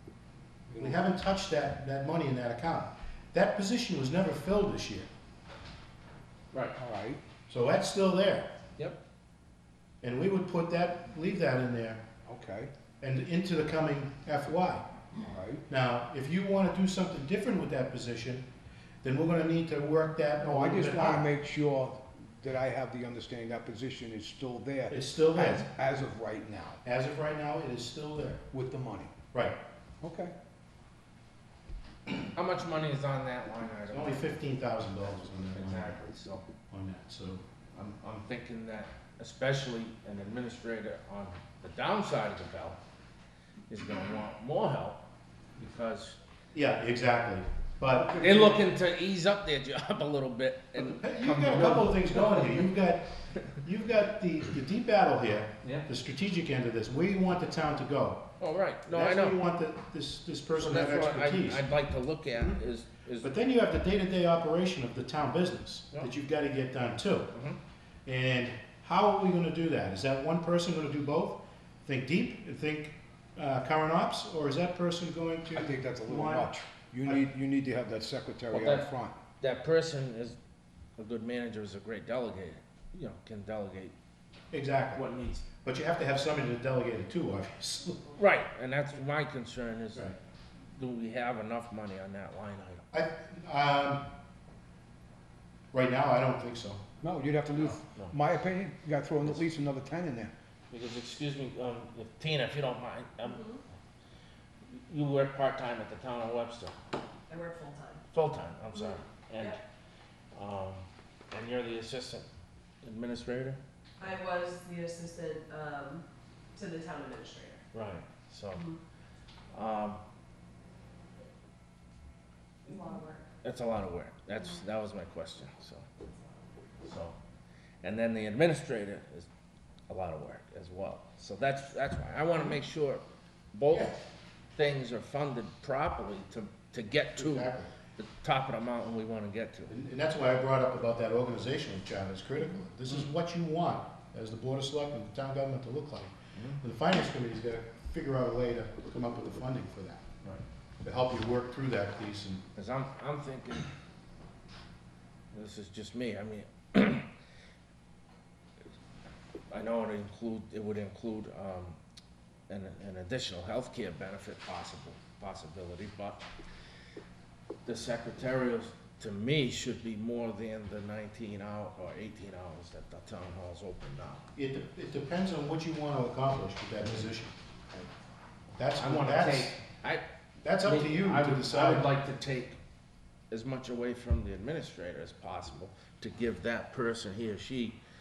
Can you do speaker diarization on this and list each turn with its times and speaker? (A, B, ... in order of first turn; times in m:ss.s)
0:00.7-0:01.0 A
0:00.8-0:05.1 B
0:06.8-0:07.2 A
0:07.5-0:08.5 B
0:10.0-0:12.0 B
0:12.2-0:12.7 A
0:13.0-0:14.9 B
0:15.2-0:15.6 A
0:15.7-0:18.5 B
0:19.0-0:21.3 B
0:20.4-0:26.8 A
0:24.9-0:25.7 B
0:26.8-0:28.4 B
0:28.5-0:29.1 A
0:29.3-0:29.6 B
0:30.0-0:30.3 A
0:32.3-0:34.4 C
0:33.9-0:36.0 B
0:34.9-0:36.4 C
0:36.7-0:37.4 B
0:37.7-0:42.8 C
0:43.7-0:45.0 C
0:45.6-0:46.2 C
0:46.5-0:48.3 B
0:48.0-0:48.6 A
0:48.1-0:52.6 C
0:50.7-0:53.1 B
0:53.6-0:58.2 B
0:55.6-0:55.9 C
0:58.4-0:59.4 C
0:58.9-1:01.6 B
1:00.6-1:03.3 C
1:03.2-1:07.3 B
1:07.3-1:07.6 C
1:08.0-1:16.5 B
1:15.5-1:19.2 A
1:18.5-1:18.9 C
1:19.4-1:20.4 C
1:21.0-1:23.9 C
1:24.5-1:25.0 B
1:24.9-1:25.4 C
1:25.6-1:28.1 B
1:28.2-1:30.0 C
1:30.8-1:32.8 C
1:32.9-1:34.1 B
1:35.7-1:36.8 B
1:37.0-1:40.3 A
1:37.5-1:38.1 C
1:40.7-1:43.6 C
1:44.7-1:46.7 C
1:47.3-1:48.0 D
1:48.1-1:49.6 C
1:48.8-1:49.6 D
1:50.3-1:52.2 C
1:52.8-1:53.6 C
1:54.0-1:57.6 D
1:57.7-1:58.7 C
1:59.5-2:00.0 C
2:02.6-2:03.2 D
2:03.4-2:05.8 C
2:06.8-2:07.2 C
2:07.8-2:09.3 C
2:09.9-2:14.0 C
2:14.6-2:19.7 C
2:17.1-2:17.7 B
2:19.7-2:30.0 B
2:26.3-2:26.6 C
2:30.8-2:32.4 B
2:32.6-2:33.7 C
2:35.3-2:37.1 C
2:39.5-2:41.8 C
2:42.5-2:46.2 C
2:47.6-2:54.2 C
2:54.3-2:57.8 B
2:56.8-2:57.1 C
2:58.5-2:59.5 B
2:58.8-3:00.0 C
3:00.4-3:01.9 B
3:00.6-3:02.6 C
3:03.3-3:07.8 C